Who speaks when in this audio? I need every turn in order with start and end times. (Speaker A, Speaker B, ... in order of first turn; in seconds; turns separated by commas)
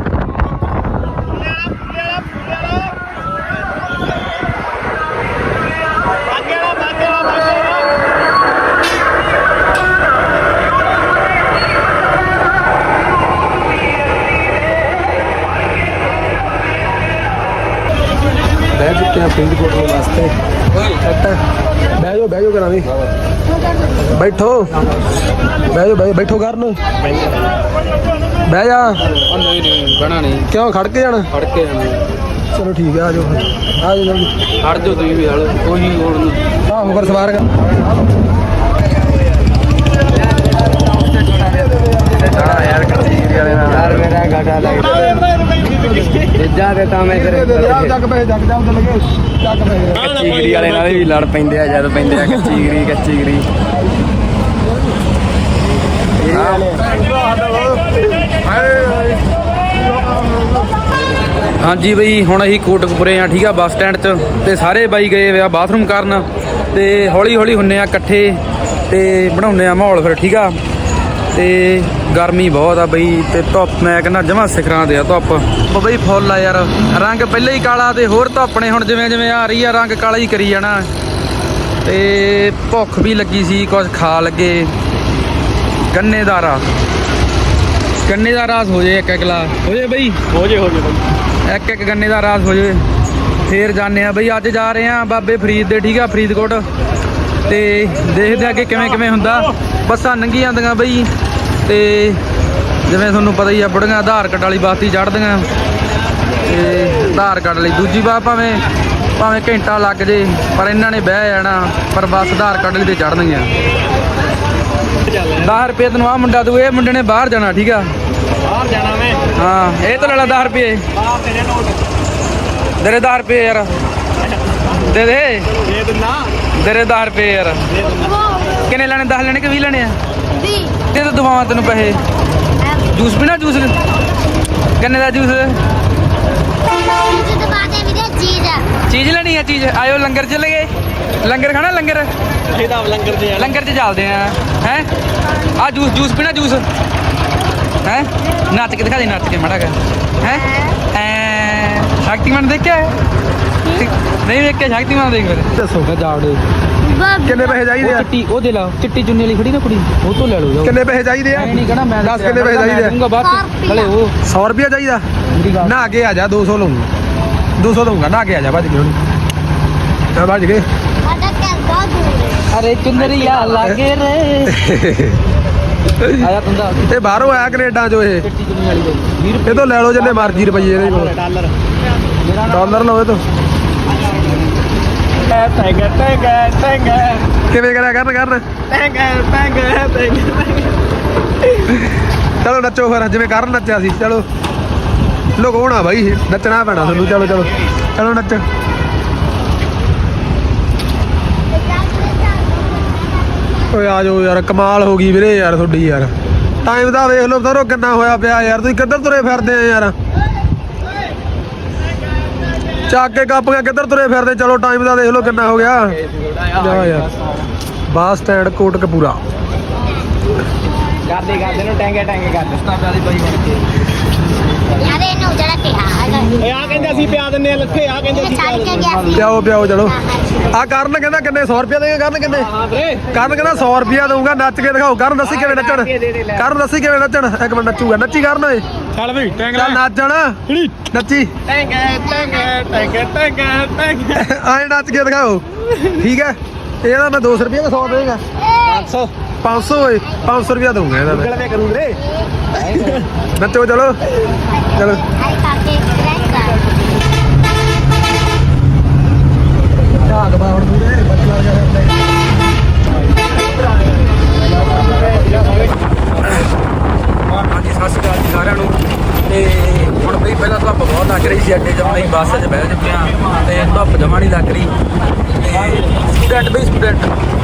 Speaker A: 1.7-2.5, Speaker A: 6.3-7.9, Speaker B: 18.8-20.3, Speaker C: 20.7-21.0, Speaker B: 21.0-21.4, Speaker B: 21.9-22.9, Speaker B: 24.0-24.7, Speaker B: 25.7-26.8, Speaker A: 27.0-27.4, Speaker B: 28.5-28.9, Speaker C: 29.1-30.5, Speaker B: 30.5-31.3, Speaker C: 31.3-32.1, Speaker B: 32.5-34.3, Speaker C: 34.6-36.4, Speaker B: 36.7-37.5, Speaker A: 40.2-40.5, Speaker C: 40.8-41.5, Speaker B: 41.4-43.2, Speaker D: 42.2-45.1, Speaker A: 44.5-46.4, Speaker D: 46.3-48.0, Speaker B: 47.1-50.0, Speaker A: 49.9-51.1, Speaker D: 49.9-53.5, Speaker D: 56.2-56.8, Speaker A: 56.2-56.9, Speaker B: 56.8-59.1, Speaker B: 60.0-60.6, Speaker C: 61.6-70.5, Speaker C: 71.3-80.9, Speaker C: 81.8-84.7, Speaker C: 85.9-86.6, Speaker C: 88.0-90.2, Speaker A: 90.3-91.0, Speaker C: 91.4-92.8, Speaker C: 93.5-96.7, Speaker C: 97.5-101.1, Speaker C: 101.7-102.2, Speaker C: 102.8-105.5, Speaker C: 106.4-108.6, Speaker C: 109.2-113.5, Speaker A: 115.0-115.5, Speaker C: 115.4-117.9, Speaker A: 118.3-119.3, Speaker C: 119.3-120.8, Speaker A: 120.9-121.8, Speaker C: 122.8-123.7, Speaker A: 124.2-124.7, Speaker C: 124.8-125.5, Speaker A: 125.5-126.3, Speaker C: 126.5-127.6, Speaker A: 127.7-128.2, Speaker C: 128.6-129.9, Speaker E: 130.4-130.8, Speaker C: 130.9-132.0, Speaker C: 132.9-133.8, Speaker C: 134.8-135.6, Speaker E: 136.8-138.7, Speaker C: 138.9-140.7, Speaker C: 141.2-142.1, Speaker A: 142.5-143.5, Speaker C: 143.3-144.9, Speaker C: 145.6-146.6, Speaker C: 147.8-152.9, Speaker C: 153.8-156.4, Speaker B: 155.5-155.9, Speaker E: 156.8-157.5, Speaker B: 157.2-158.1, Speaker C: 157.8-160.8, Speaker B: 160.6-163.0, Speaker C: 161.3-164.1, Speaker E: 163.2-163.9, Speaker B: 164.2-165.0, Speaker C: 165.3-165.8, Speaker B: 165.6-166.9, Speaker B: 167.6-169.0, Speaker B: 170.1-170.7, Speaker E: 171.0-172.4, Speaker C: 172.5-174.5, Speaker A: 172.9-173.6, Speaker B: 174.5-175.2, Speaker C: 176.2-177.3, Speaker B: 176.9-178.2, Speaker C: 178.2-179.7, Speaker B: 179.4-181.1, Speaker A: 179.9-181.5, Speaker C: 182.2-182.8, Speaker B: 182.5-183.2, Speaker C: 183.9-184.3, Speaker A: 185.2-187.3, Speaker B: 187.5-188.4, Speaker A: 188.7-190.8, Speaker B: 192.4-194.2, Speaker B: 195.3-198.4, Speaker A: 196.7-197.7, Speaker E: 201.8-202.3, Speaker B: 203.7-206.1, Speaker B: 206.6-209.9, Speaker B: 212.9-215.9, Speaker C: 216.2-217.0, Speaker B: 216.6-217.1, Speaker B: 217.9-219.2, Speaker A: 221.2-222.6, Speaker C: 222.4-223.8, Speaker C: 224.6-224.8, Speaker E: 224.8-226.4, Speaker A: 226.4-229.0, Speaker E: 228.1-230.5, Speaker B: 229.1-232.5, Speaker A: 232.3-233.7, Speaker B: 233.1-238.6, Speaker A: 235.2-236.4, Speaker A: 238.9-239.6, Speaker B: 239.5-241.3, Speaker A: 241.5-244.2, Speaker B: 244.1-245.4, Speaker A: 245.7-245.9, Speaker B: 246.0-248.2, Speaker E: 248.4-248.8, Speaker A: 248.6-249.1, Speaker B: 249.4-251.3, Speaker A: 251.0-252.0, Speaker A: 252.6-253.1, Speaker B: 253.3-254.0, Speaker B: 254.7-255.0, Speaker E: 254.7-256.6, Speaker B: 259.9-261.9, Speaker A: 264.8-265.6, Speaker C: 267.3-274.8, Speaker C: 275.3-277.1